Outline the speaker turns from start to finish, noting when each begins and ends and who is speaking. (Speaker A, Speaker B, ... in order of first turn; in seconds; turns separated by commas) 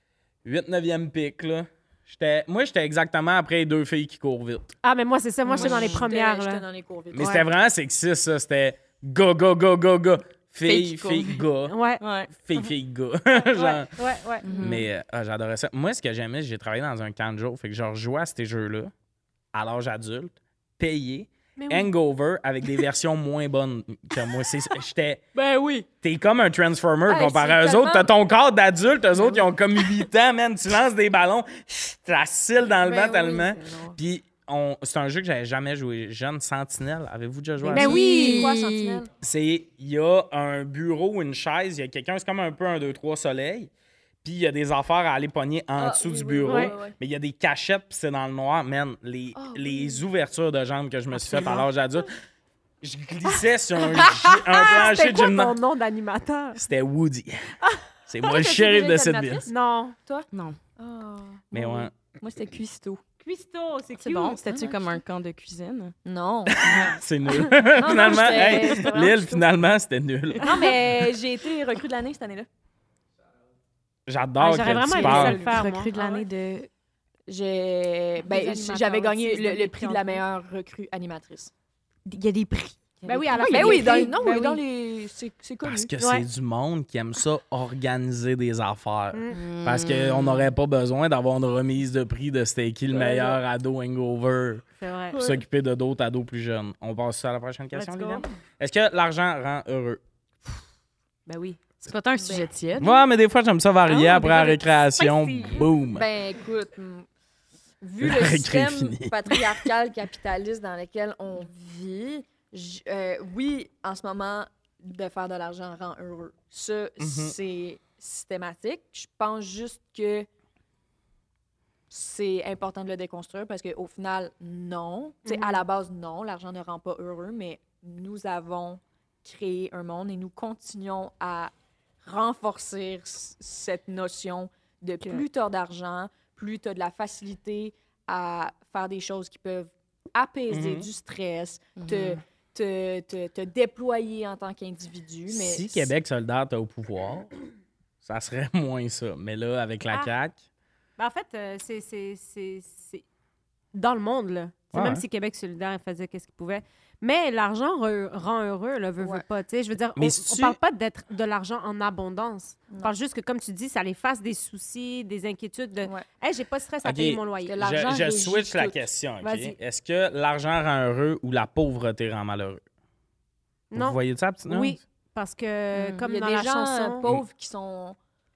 Speaker A: 0.5-4.7, Speaker B: 4.8-6.6, Speaker C: 5.5-6.0, Speaker D: 5.5-7.5, Speaker A: 7.1-11.8, Speaker B: 7.2-7.4, Speaker C: 10.6-11.4, Speaker B: 11.7-12.0, Speaker C: 12.0-12.3, Speaker A: 12.3-13.9, Speaker B: 13.9-14.5, Speaker C: 14.4-14.9, Speaker A: 14.5-18.9, Speaker A: 19.5-25.2, Speaker B: 21.6-21.9, Speaker D: 25.4-25.9, Speaker A: 26.0-38.0, Speaker D: 27.1-28.1, Speaker D: 32.9-34.0, Speaker C: 37.6-39.0, Speaker B: 37.7-38.5, Speaker D: 37.7-39.1, Speaker A: 39.2-43.7, Speaker A: 44.2-52.1, Speaker D: 45.8-47.0, Speaker B: 46.5-46.7, Speaker D: 49.4-50.0, Speaker B: 51.2-51.6, Speaker A: 52.8-55.5, Speaker B: 54.5-56.6, Speaker A: 56.6-57.5, Speaker A: 58.0-59.5, Speaker D: 58.2-59.5, Speaker B: 59.5-60.0, Speaker C: 60.3-60.6, Speaker D: 60.8-63.0, Speaker A: 61.5-61.9, Speaker B: 63.2-64.4, Speaker C: 64.0-66.0, Speaker D: 64.5-64.8, Speaker D: 66.0-66.9, Speaker A: 66.5-70.5, Speaker D: 67.7-69.4, Speaker C: 68.7-69.0, Speaker D: 70.4-72.5, Speaker A: 74.1-75.4, Speaker B: 74.4-75.9, Speaker D: 74.9-76.2, Speaker C: 75.0-76.7, Speaker D: 77.3-81.5, Speaker B: 78.2-80.2, Speaker C: 82.0-84.6, Speaker D: 83.0-85.9, Speaker B: 83.0-84.3, Speaker A: 85.6-100.0, Speaker B: 86.0-86.2, Speaker B: 89.1-89.4, Speaker C: 89.3-90.5, Speaker D: 92.9-93.4, Speaker B: 94.8-95.2, Speaker B: 97.7-98.3, Speaker B: 101.3-101.6, Speaker C: 101.8-103.0, Speaker D: 102.2-102.5, Speaker A: 102.8-106.0, Speaker C: 103.9-105.7, Speaker D: 105.4-107.1, Speaker D: 107.8-120.3, Speaker A: 108.0-109.5, Speaker A: 117.0-117.3, Speaker D: 121.9-145.9, Speaker B: 125.2-125.6, Speaker A: 140.5-140.9, Speaker C: 141.8-142.2, Speaker A: 145.3-147.3, Speaker A: 148.0-150.4, Speaker B: 151.0-153.0, Speaker B: 153.7-167.6, Speaker A: 154.7-155.0, Speaker D: 159.0-159.2, Speaker A: 160.0-160.6, Speaker A: 166.8-172.6, Speaker D: 167.4-168.8, Speaker B: 169.2-169.6, Speaker B: 173.7-177.0, Speaker A: 173.7-174.8, Speaker D: 175.8-178.0